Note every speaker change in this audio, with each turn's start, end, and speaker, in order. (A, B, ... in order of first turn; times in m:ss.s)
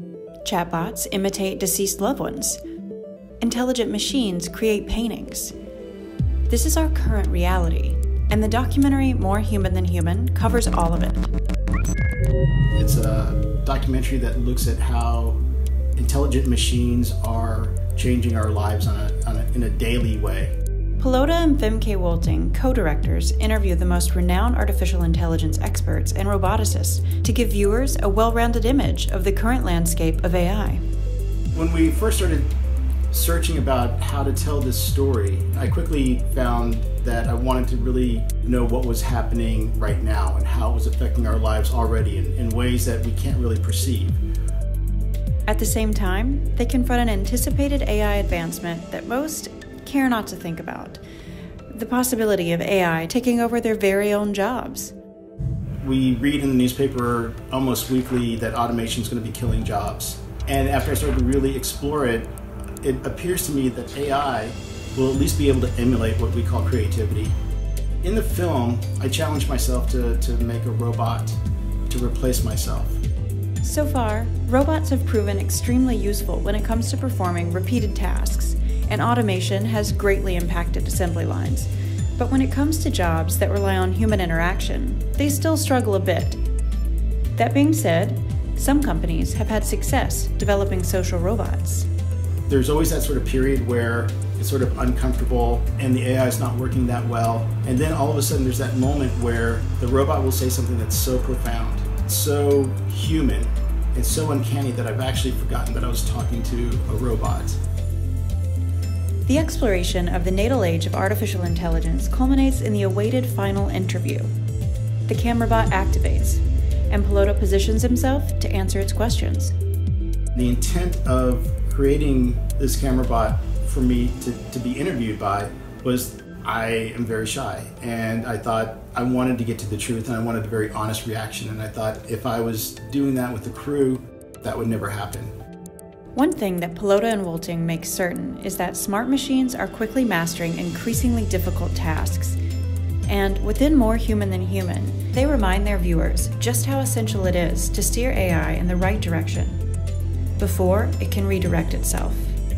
0:00.4-0:02.6 A
0:03.4-0:05.5 A
0:06.5-0:11.3 A
0:12.8-0:15.4 B
0:16.0-0:20.5 B
0:21.0-0:30.8 A
0:31.5-0:32.5 B
0:33.1-0:44.2 B
0:45.5-0:51.0 A
0:51.7-0:54.9 A
0:55.8-1:02.3 B
1:02.8-1:07.3 B
1:08.0-1:13.0 B
1:13.6-1:26.4 A
1:27.4-1:31.9 A
1:32.5-1:47.6 B
1:49.2-1:54.3 A
1:55.1-1:59.5 A
2:00.3-2:15.3 B
2:16.1-2:22.4 A
2:23.1-2:29.6 A
2:30.4-2:32.3 A